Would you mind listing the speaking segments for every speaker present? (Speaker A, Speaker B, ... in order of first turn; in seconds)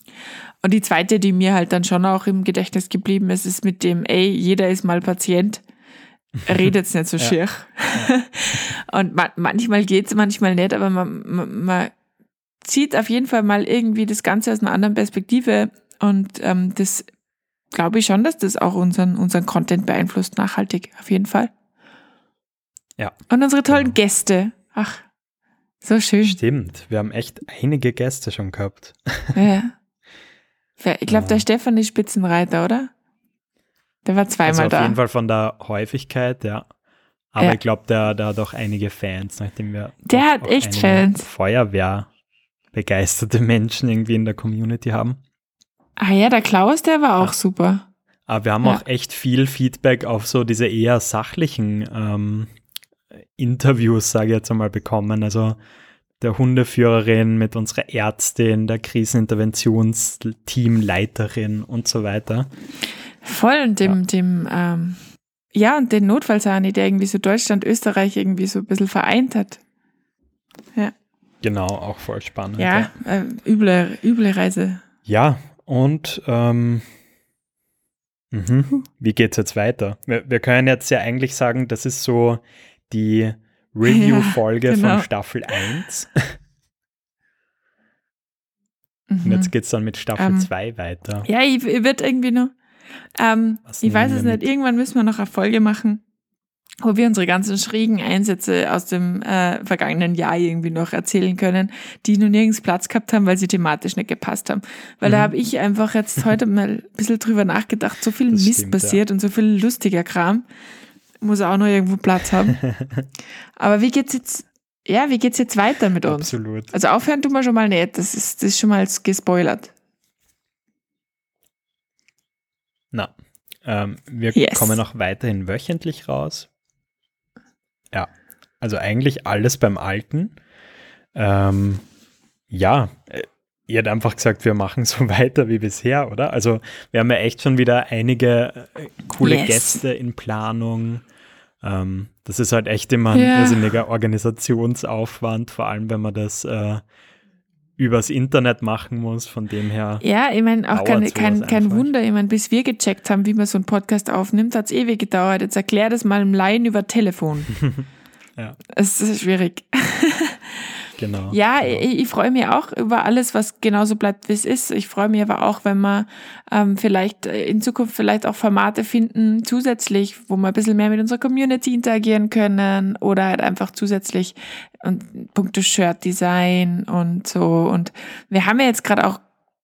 Speaker A: 0.6-5.6, 6.4-11.9, 12.6-17.1, 17.7-21.5, 23.3-25.0, 25.8-26.4, 29.3-29.7, 30.8-32.9, 34.0-35.0, 40.0-41.2, 46.0-47.9, 63.2-65.0, 65.5-69.6, 72.6-74.8, 83.8-85.1, 89.1-89.5, 90.2-90.5, 91.2-92.5, 93.2-96.0, 96.8-110.4, 111.2-112.6, 113.6-119.7, 124.3-124.8, 139.2-139.8, 143.1-143.7, 150.0-157.5, 158.7-160.7, 161.3-179.2
Speaker B: 23.7-23.9, 26.2-29.4, 31.1-31.4, 34.4-36.7, 37.3-42.1, 42.7-45.2, 48.3-52.5, 53.4-55.6, 56.2-62.5, 71.4-72.9, 75.0-76.8, 78.3-86.2, 89.2-91.3, 93.7-94.5, 105.0-105.3, 108.3-109.0, 112.6-113.0, 116.0-116.7, 123.6-126.5, 127.9-130.3, 131.1-131.8, 132.5-141.0, 141.6-146.8, 147.8-150.0, 150.7-151.9, 161.0-161.8